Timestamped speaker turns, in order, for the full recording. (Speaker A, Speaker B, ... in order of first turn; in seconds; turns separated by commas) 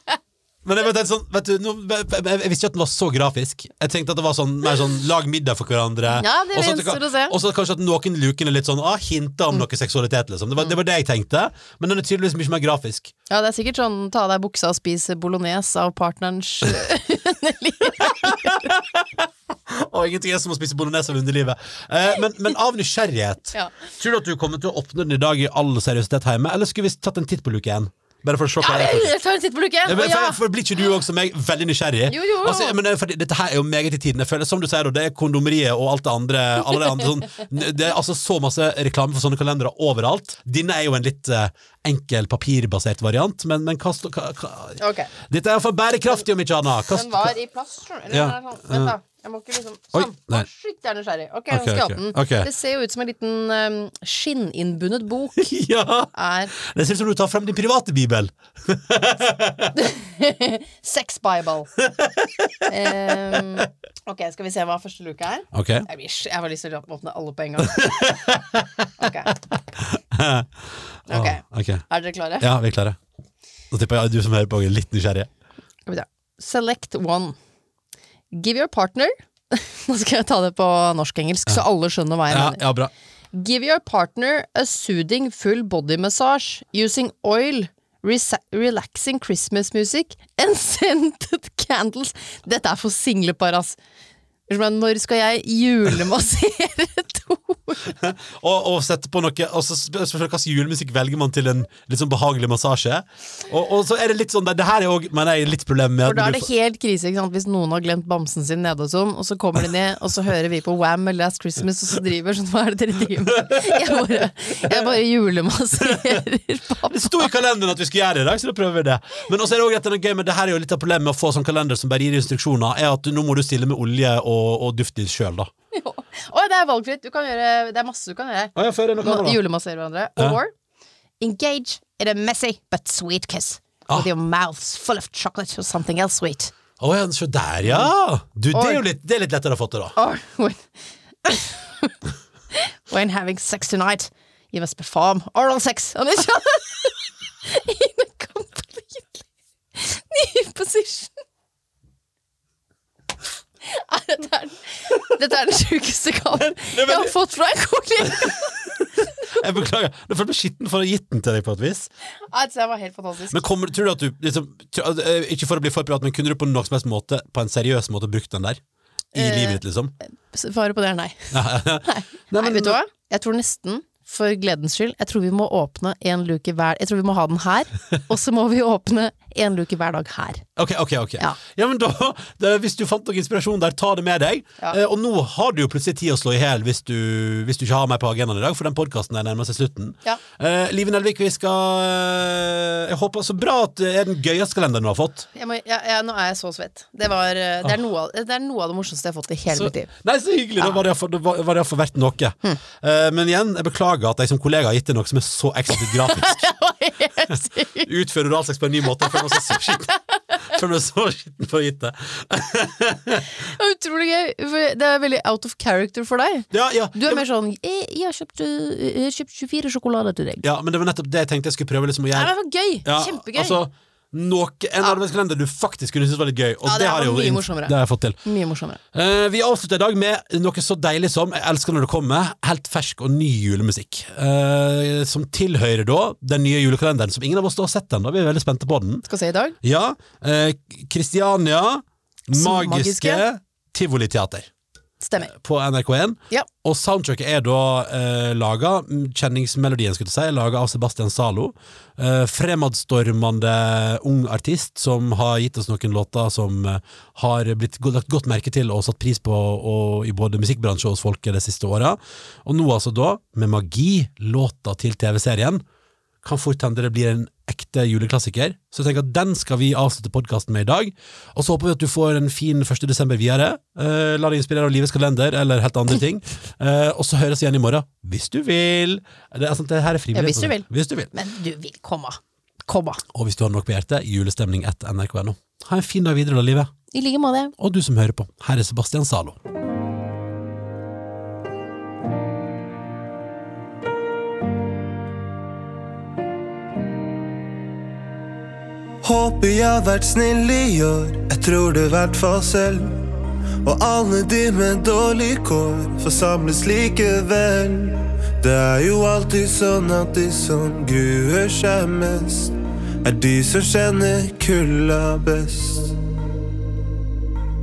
Speaker A: 0.6-13.1, Speaker B: 6.1-7.4, Speaker B: 13.3-18.7, Speaker A: 18.0-29.1, Speaker B: 28.6-30.4, Speaker A: 29.9-47.4, Speaker B: 32.1-32.8, Speaker B: 44.8-45.1, Speaker B: 46.9-55.5, Speaker A: 48.1-48.9, Speaker A: 49.9-50.5, Speaker A: 51.5-52.5, Speaker A: 55.4-59.8, Speaker B: 56.1-56.5, Speaker B: 59.8-61.7, Speaker A: 61.8-63.7, Speaker B: 62.7-68.4, Speaker A: 65.5-65.9, Speaker A: 67.6-68.8, Speaker B: 69.0-69.3, Speaker A: 69.5-70.5, Speaker A: 71.1-71.8, Speaker B: 71.1-72.5, Speaker A: 72.4-73.0, Speaker A: 73.7-75.3, Speaker B: 75.9-77.4, Speaker B: 78.3-82.7, Speaker A: 82.3-82.9, Speaker B: 83.3-93.8, Speaker B: 94.5-98.0, Speaker A: 97.9-106.5, Speaker B: 106.0-117.3, Speaker A: 113.2-114.9, Speaker A: 115.8-116.2, Speaker A: 116.8-125.5, Speaker B: 125.7-130.5, Speaker A: 128.6-129.4, Speaker B: 131.2-136.5, Speaker A: 136.8-139.9, Speaker B: 138.5-138.8, Speaker B: 140.0-140.7, Speaker B: 141.2-141.9, Speaker B: 142.5-151.1, Speaker B: 153.6-158.7, Speaker A: 156.4-157.1, Speaker A: 159.2-161.9, Speaker B: 162.3-163.5, Speaker A: 163.3-168.6, Speaker A: 169.1-169.9, Speaker B: 169.2-169.6, Speaker B: 170.3-171.3, Speaker A: 171.3-172.8, Speaker B: 171.8-180.4, Speaker A: 180.6-195.3, Speaker B: 195.3-199.9, Speaker A: 199.5-206.5, Speaker B: 205.7-207.9, Speaker A: 207.8-213.3, Speaker B: 213.4-220.5, Speaker A: 216.5-217.2, Speaker A: 220.4-222.3, Speaker B: 222.1-223.6, Speaker A: 222.8-228.2, Speaker B: 226.7-228.8, Speaker A: 228.9-239.1, Speaker B: 239.1-239.6, Speaker A: 239.6-244.5, Speaker B: 242.3-243.2, Speaker B: 245.0-245.3, Speaker A: 245.3-265.6, Speaker A: 266.2-281.1, Speaker B: 280.1-283.0, Speaker A: 283.1-286.7, Speaker B: 286.9-287.5, Speaker A: 287.6-289.4, Speaker C: 299.0-303.0, Speaker C: 303.6-315.9